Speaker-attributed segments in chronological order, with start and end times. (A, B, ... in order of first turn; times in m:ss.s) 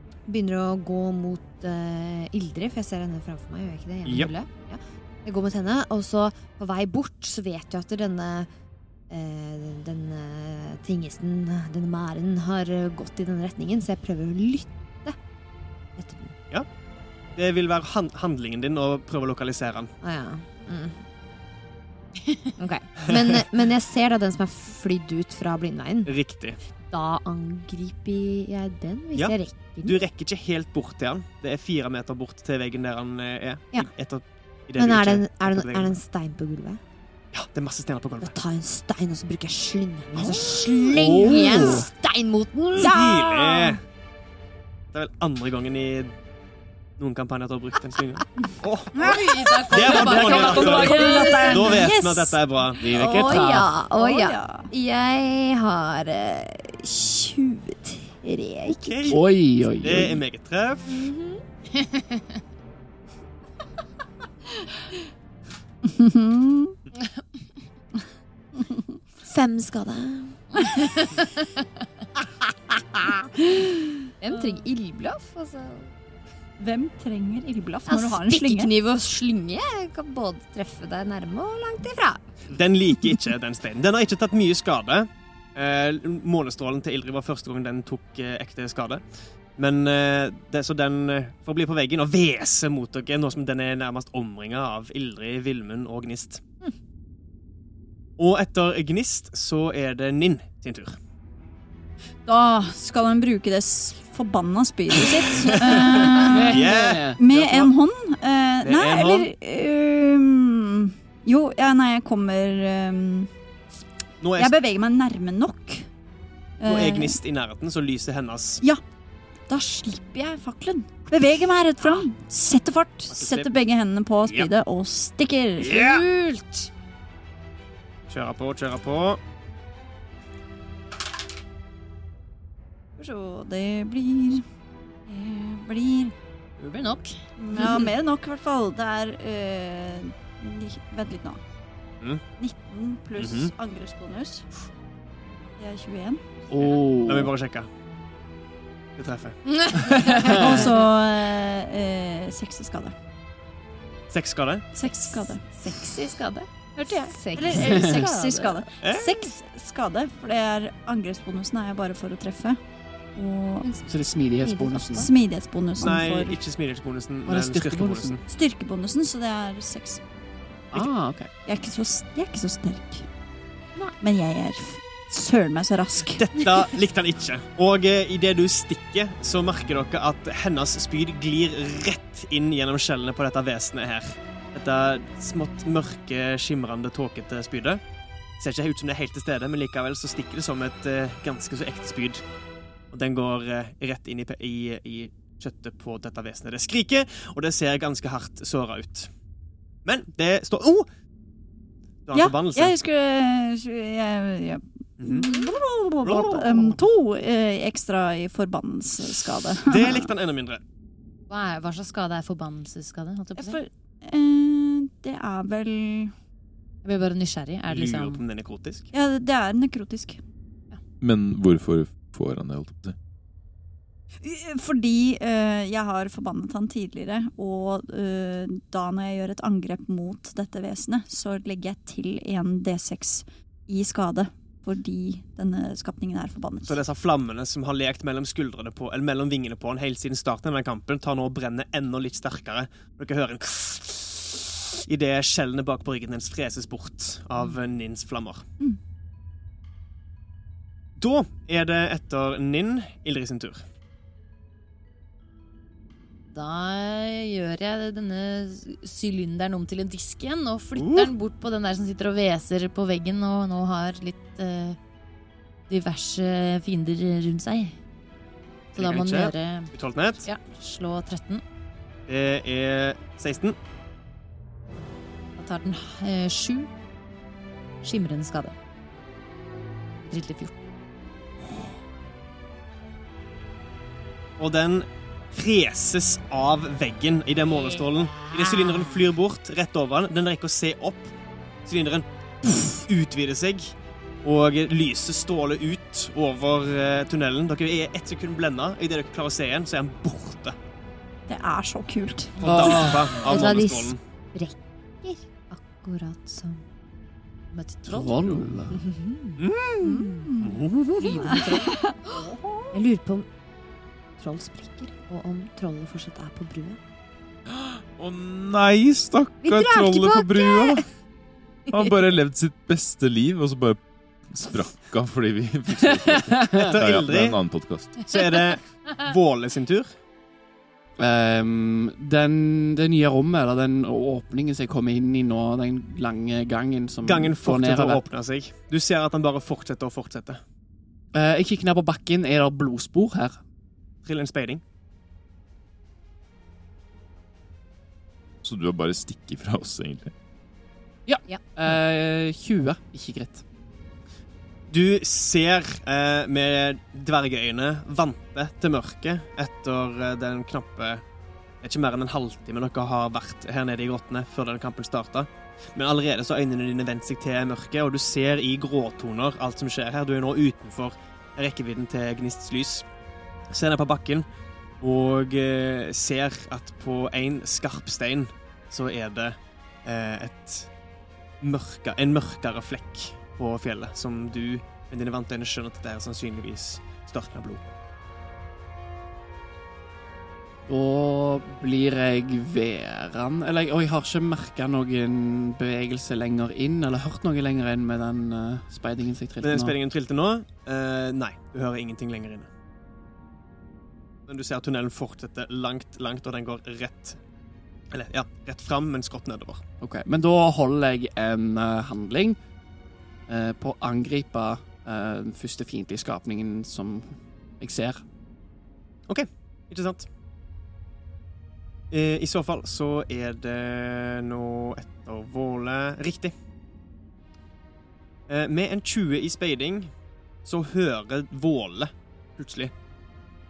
0:00.3-0:08.5 A
0:04.1-0:04.3 B
0:09.1-0:15.2 A
0:16.0-0:16.4 A
0:17.4-0:19.9 B
0:20.0-0:21.0 A
0:22.2-0:22.5 C
0:22.6-0:26.1 A
0:23.1-0:23.4 B
0:26.1-0:26.6 B
0:26.9-0:30.0 A
0:29.2-0:36.0 B
0:34.8-0:36.8 A
0:37.3-0:38.4 B
0:38.2-0:43.0 A
0:40.3-0:41.9 D
0:42.7-0:43.8 B
0:42.8-0:43.8 E
0:44.9-0:46.1 B
0:47.0-0:53.0 B
0:49.0-0:51.7 C
0:49.0-0:52.4 E
0:49.9-0:50.9 D
0:50.0-0:51.9 A
0:52.8-0:53.7 D
0:52.9-0:59.2 A
0:53.9-0:54.7 E
0:58.2-0:58.7 E
0:58.7-0:59.3 B
0:59.1-1:00.2 D
0:59.8-1:01.0 B
1:00.9-1:01.4 A
1:01.7-1:02.2 C
1:05.8-1:06.8 E
1:08.6-1:08.9 E
1:09.2-1:10.7 A
1:10.6-1:11.6 C
1:13.0-1:13.3 A
1:14.2-1:15.9 A
1:16.6-1:18.7 E
1:17.9-1:22.3 A
1:22.5-1:29.0 B
1:29.6-1:36.4 B
1:38.2-1:41.0 B
1:42.3-1:53.3 E
1:45.4-1:47.7 B
1:46.2-1:47.2 D
1:48.6-1:49.3 B
1:54.2-1:54.6 B
1:54.4-1:55.9 E
1:56.6-1:57.2 E
1:56.6-1:58.6 B
1:59.5-2:05.8 E
2:03.1-2:03.5 B
2:05.6-2:06.7 C
2:05.8-2:06.0 B
2:08.1-2:09.2 B
2:13.0-2:14.5 E
2:15.1-2:16.1 E
2:16.6-2:17.2 C
2:17.4-2:21.4 E
2:22.4-2:24.5 E
2:23.2-2:23.5 B
2:25.6-2:26.4 E
2:26.5-2:27.3 D
2:26.6-2:27.7 B
2:29.0-2:29.4 B
2:29.6-2:30.7 A
2:29.9-2:30.7 D
2:30.2-2:33.0 E
2:34.1-2:34.7 B
2:34.7-2:36.0 E
2:35.0-2:38.2 C
2:35.7-2:36.2 A
2:36.8-2:38.6 A
2:36.9-2:42.6 E
2:37.7-2:38.0 D
2:38.8-2:39.1 B
2:43.2-2:43.7 E
2:43.6-2:45.1 A
2:43.9-2:45.1 D
2:45.0-2:46.4 E
2:45.8-2:48.2 B
2:47.3-2:48.2 D
2:48.3-2:50.0 E
2:50.7-2:51.3 D
2:51.4-2:53.1 E
2:54.0-2:56.3 E
2:56.2-3:07.8 B
3:08.4-3:12.2 B
3:12.9-3:19.1 B
3:19.8-3:20.9 B
3:22.1-3:22.8 B
3:22.1-3:30.1 E
3:25.0-3:25.3 B
3:26.0-3:26.8 B
3:29.7-3:30.6 B
3:31.3-3:33.6 C
3:33.4-3:36.1 E
3:36.8-3:38.2 C
3:37.7-3:38.9 B
3:38.9-3:40.2 E
3:41.0-3:43.0 F
3:44.2-3:56.8 E
3:56.7-4:08.5 B
4:11.0-4:13.6 B
4:16.3-4:24.8 C
4:20.8-4:21.1 B
4:25.7-4:27.8 C
4:28.8-4:29.7 C
4:28.8-4:30.3 B
4:30.2-4:31.4 C
4:32.1-4:33.6 B
4:35.4-4:36.7 C
4:37.8-4:38.6 C
4:40.0-4:40.6 C
4:44.4-4:51.1 B
4:51.6-4:53.7 B
4:54.2-5:00.6 B
5:01.3-5:02.4 E
5:02.4-5:04.0 B
5:02.4-5:03.2 D
5:03.2-5:06.6 A
5:07.5-5:08.5 C
5:07.8-5:08.8 D
5:08.7-5:10.2 A
5:09.4-5:09.8 B
5:09.8-5:10.6 E
5:10.4-5:11.1 B
5:11.0-5:12.2 C
5:11.0-5:11.6 A
5:11.2-5:12.2 E
5:12.7-5:13.3 A
5:14.2-5:16.8 A
5:17.5-5:20.8 F
5:19.4-5:20.8 A
5:21.7-5:28.0 F
5:26.3-5:26.7 D
5:26.5-5:27.4 B
5:28.1-5:29.9 B
5:31.0-5:38.0 D
5:37.0-5:40.4 B
5:41.1-5:43.4 D
5:44.0-5:44.6 B
5:48.4-5:50.1 F
5:51.1-5:53.4 D
5:54.7-6:01.0 B
6:01.6-6:12.8 B
6:13.5-6:14.2 B
6:14.8-6:20.7 B
6:21.4-6:27.7 B
6:30.7-6:39.8 D
6:39.4-6:42.5 B
6:44.3-6:47.2 B
6:47.9-6:49.6 B
6:49.8-6:52.4 D
6:53.3-6:58.0 D
6:59.1-7:00.1 B
7:01.9-7:06.3 B
7:08.3-7:09.9 B
7:10.4-7:12.7 B